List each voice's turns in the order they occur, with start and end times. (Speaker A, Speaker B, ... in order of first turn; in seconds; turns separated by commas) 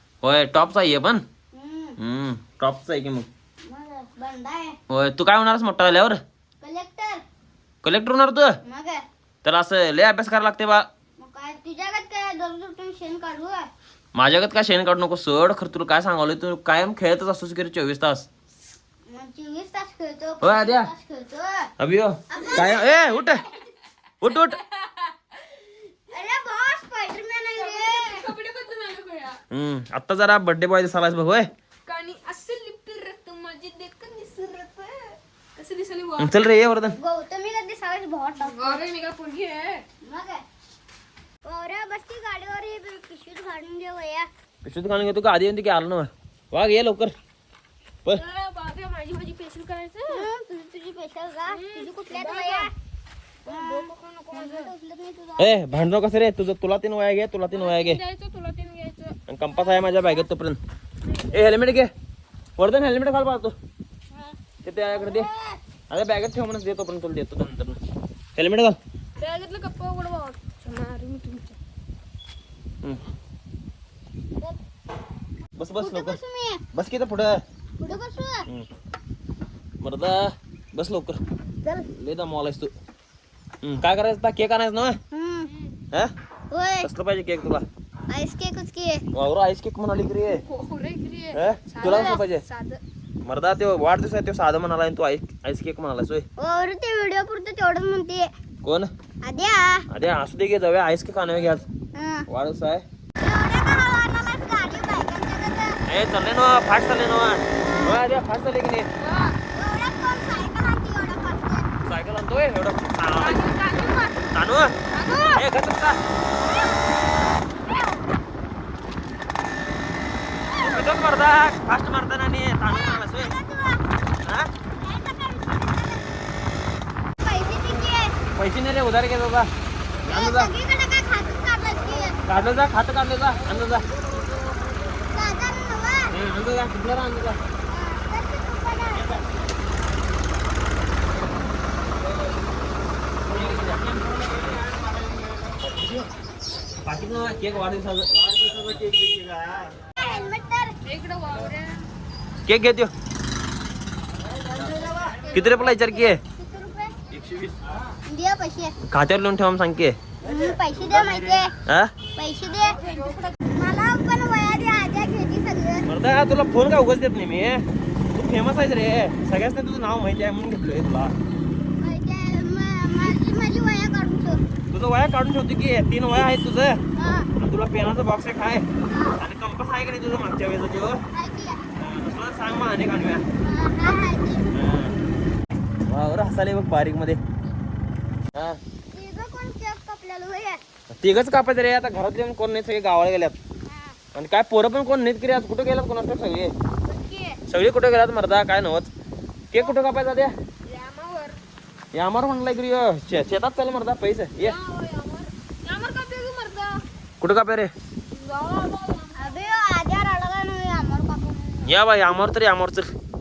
Speaker A: 0.2-1.2, Speaker B: 1.5-2.0, Speaker A: 2.0-3.3, Speaker B: 3.6-4.8, Speaker A: 4.9-6.2, Speaker B: 6.6-7.2, Speaker A: 7.8-8.6, Speaker B: 8.6-9.0, Speaker A: 9.4-10.9, Speaker B: 11.2-13.7, Speaker A: 14.2-18.3, Speaker B: 19.1-21.7, Speaker A: 20.4-20.9, Speaker A: 21.8-23.4, Speaker B: 22.3-23.4, Speaker A: 24.2-24.6, Speaker C: 24.3-25.1, Speaker B: 26.1-28.3, Speaker C: 27.6-29.4, Speaker A: 29.5-31.5, Speaker C: 31.9-36.4, Speaker A: 36.2-37.0, Speaker B: 37.0-38.8, Speaker C: 38.4-39.9, Speaker B: 40.0-40.4, Speaker B: 41.4-44.3, Speaker A: 44.6-47.1, Speaker C: 48.1-50.3, Speaker B: 50.1-52.7, Speaker C: 51.5-52.7, Speaker C: 53.4-54.7, Speaker B: 53.5-55.9, Speaker A: 55.4-58.0, Speaker C: 57.5-59.2, Speaker A: 59.3-60.6, Speaker C: 61.0-61.4, Speaker A: 61.3-61.9, Speaker A: 62.6-63.5, Speaker B: 64.1-65.6, Speaker A: 64.6-65.3, Speaker A: 65.9-67.8, Speaker A: 68.4-68.8, Speaker C: 69.2-71.6, Speaker A: 75.6-76.2, Speaker B: 75.8-76.6, Speaker A: 76.7-77.4, Speaker B: 77.8-78.5, Speaker A: 79.8-81.2, Speaker A: 81.9-82.7, Speaker A: 83.6-85.0, Speaker B: 85.1-85.5, Speaker B: 86.5-86.9, Speaker A: 86.8-87.7, Speaker B: 88.1-89.0, Speaker A: 89.1-90.4, Speaker C: 90.5-92.8, Speaker A: 91.3-92.4, Speaker B: 91.8-92.2, Speaker A: 93.2-96.3, Speaker B: 96.4-98.3, Speaker A: 98.6-98.9, Speaker B: 99.2-99.9, Speaker A: 99.9-101.7, Speaker B: 102.0-102.3, Speaker A: 102.3-102.8, Speaker B: 103.2-105.8, Speaker A: 105.9-108.9, Speaker B: 107.5-108.1, Speaker C: 109.0-109.4, Speaker B: 109.5-111.7, Speaker A: 111.8-113.4, Speaker C: 113.2-114.3, Speaker A: 114.3-114.8, Speaker C: 114.9-115.5, Speaker A: 115.3-116.0, Speaker B: 116.3-117.0, Speaker A: 120.6-123.4, Speaker B: 122.7-123.9, Speaker A: 124.2-124.5, Speaker B: 124.8-126.2, Speaker B: 127.2-128.2, Speaker A: 128.4-129.5, Speaker A: 130.1-130.5, Speaker B: 130.1-132.2, Speaker A: 132.3-133.9, Speaker B: 135.1-136.2, Speaker A: 136.1-137.4, Speaker B: 137.7-139.2, Speaker A: 143.2-146.1, Speaker A: 146.8-149.9, Speaker B: 150.0-150.8, Speaker C: 150.8-151.9, Speaker A: 152.4-152.9, Speaker B: 154.5-157.0, Speaker A: 155.3-156.2, Speaker A: 157.1-157.6, Speaker B: 158.1-158.8, Speaker A: 158.9-160.0, Speaker B: 160.2-161.5, Speaker A: 160.7-161.9, Speaker B: 162.2-165.9, Speaker C: 162.7-163.3, Speaker A: 165.9-171.2, Speaker B: 171.8-174.4, Speaker A: 174.7-176.8, Speaker B: 177.0-177.3, Speaker A: 177.4-178.7, Speaker B: 178.9-179.2, Speaker A: 179.2-181.0, Speaker B: 181.1-181.6, Speaker A: 181.8-183.3, Speaker B: 183.4-184.5, Speaker A: 184.5-185.0, Speaker A: 185.9-187.2, Speaker A: 188.3-188.6, Speaker B: 188.9-190.6, Speaker A: 190.9-193.4, Speaker B: 193.7-194.0, Speaker A: 194.1-196.5, Speaker C: 197.0-197.4, Speaker A: 197.5-198.9, Speaker A: 199.5-200.3, Speaker C: 200.7-201.4, Speaker A: 201.9-204.6, Speaker C: 204.4-206.8, Speaker A: 207.2-207.7, Speaker C: 208.1-209.6, Speaker B: 209.2-211.8, Speaker A: 211.7-212.9